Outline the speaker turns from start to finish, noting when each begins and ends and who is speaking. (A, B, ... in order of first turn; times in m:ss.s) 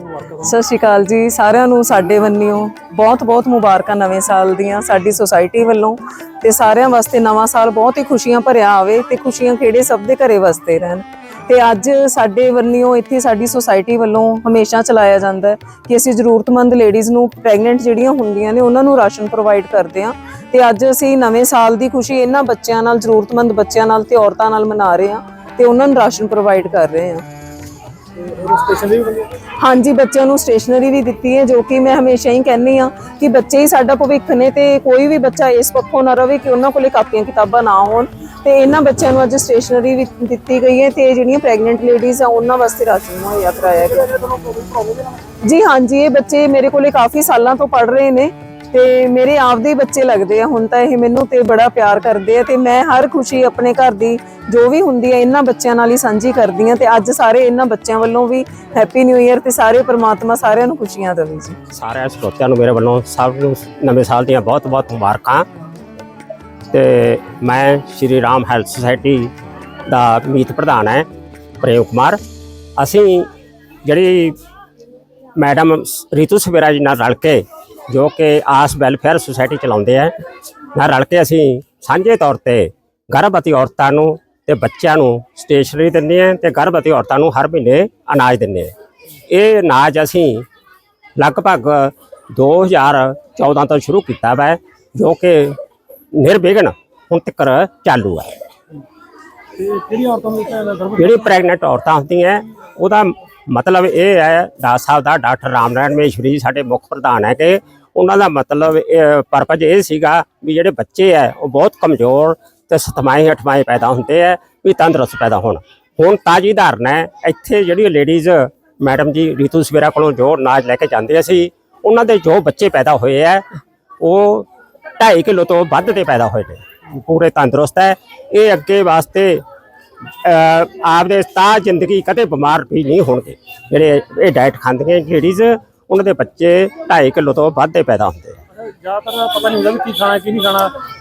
0:00.4-0:27.2 A
0:28.5-0:29.0 B
0:29.6-0:44.5 A
0:45.4-1:01.6 A
1:01.7-1:05.4 C
1:06.7-1:09.3 C
1:09.9-1:11.0 C
1:11.6-1:12.2 C
1:12.8-1:13.3 C
1:13.8-1:14.4 C
1:15.4-1:20.1 C
1:20.7-1:28.7 C
1:29.3-1:30.4 C
1:31.2-1:35.6 C
1:36.2-1:38.4 C
1:39.6-1:40.9 B
1:40.8-2:03.4 C
2:04.0-2:04.5 C
2:05.0-2:09.4 C
2:10.2-2:18.4 C
2:18.8-2:20.7 B